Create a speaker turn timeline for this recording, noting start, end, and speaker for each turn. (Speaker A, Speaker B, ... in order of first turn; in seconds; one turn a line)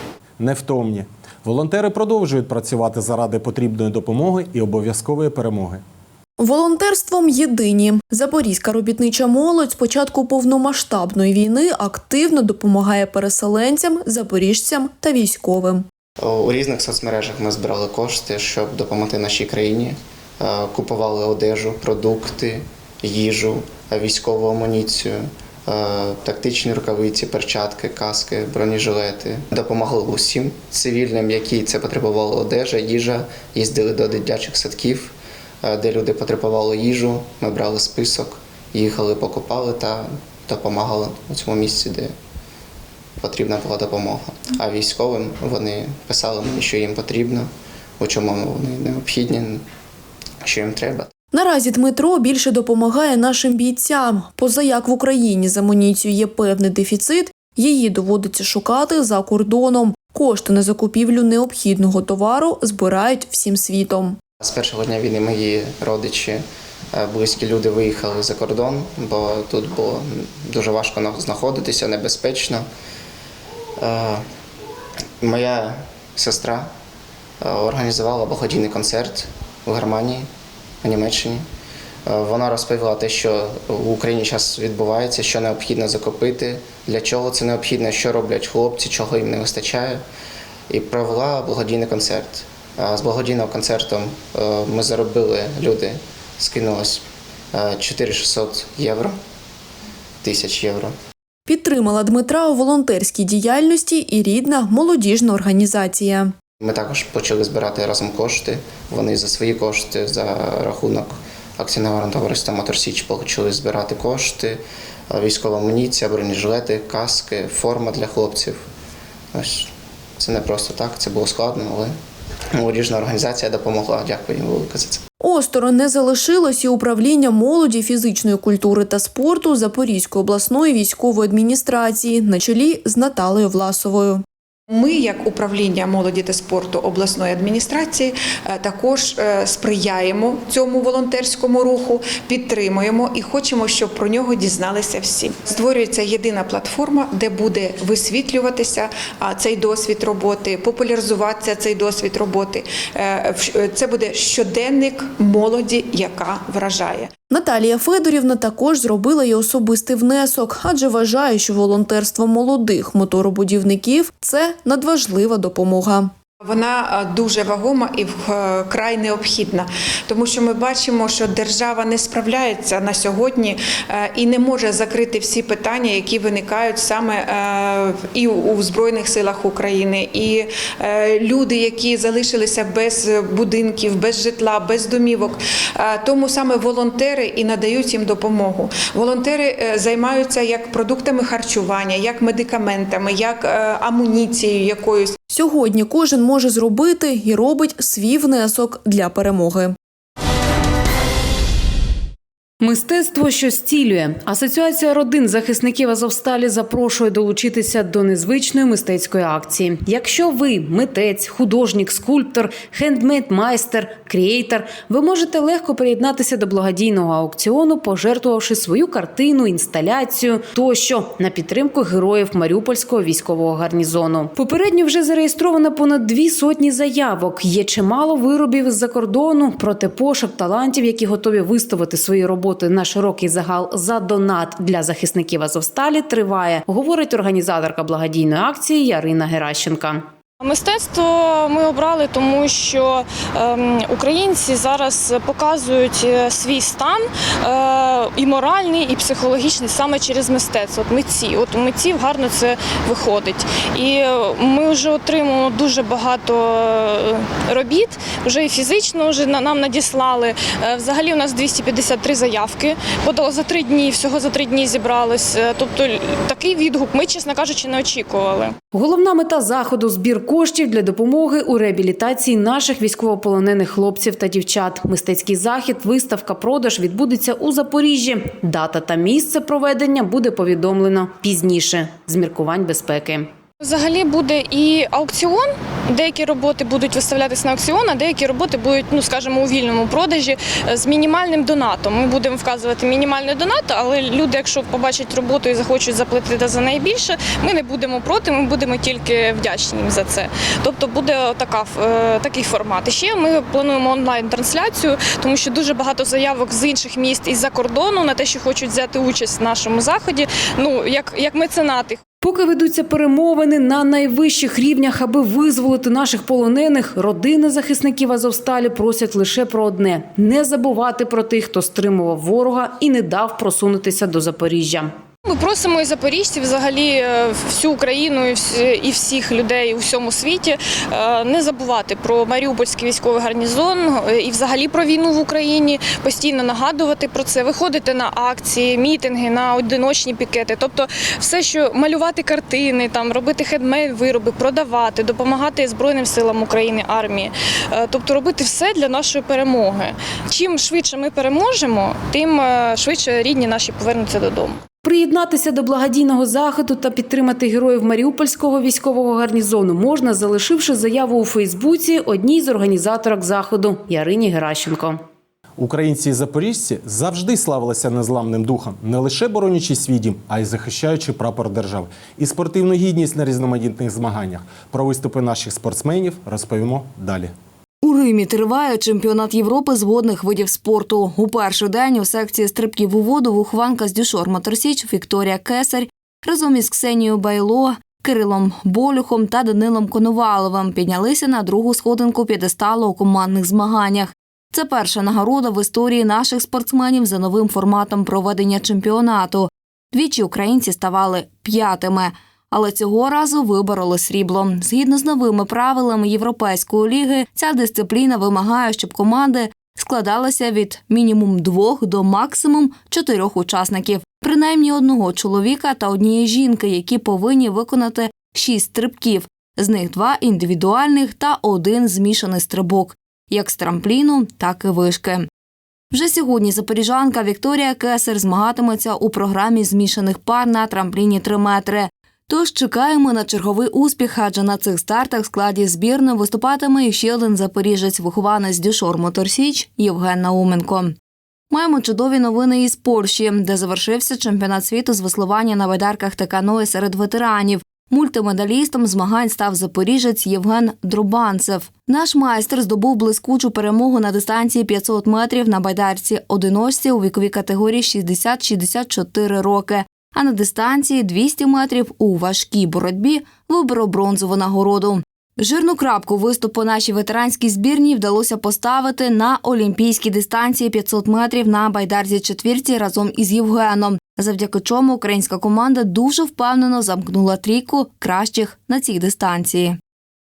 Speaker A: 0.4-5.8
Speaker B: 6.4-15.8
Speaker C: 16.2-42.1
Speaker C: 43.2-49.6
Speaker C: 50.4-51.1
Speaker B: 51.3-64.2
Speaker C: 64.4-72.7
Speaker C: 73.8-74.2
Speaker C: 75.2-76.7
Speaker C: 77.4-80.3
Speaker C: 80.8-81.4
Speaker C: 82.0-90.0
Speaker C: 90.7-99.2
Speaker C: 100.2-100.9
Speaker B: 101.5-106.3
Speaker C: 106.6-118.6
Speaker C: 119.3-121.9
Speaker C: 122.5-125.0
Speaker B: 125.2-134.2
Speaker D: 134.7-157.1
Speaker B: 157.3-166.1
Speaker D: 166.4-195.1
Speaker B: 195.3-199.8
Speaker E: 202.6-240.0
Speaker F: 240.4-268.5
Speaker E: 268.7-283.3
Speaker F: 283.6-312.0
Speaker E: 312.2-324.9
Speaker F: 325.2-354.6
Speaker E: 354.8-365.0
Speaker A: 365.6-377.3
Speaker G: 377.8-425.3
Speaker G: 425.9-440.9
Speaker G: 441.5-479.8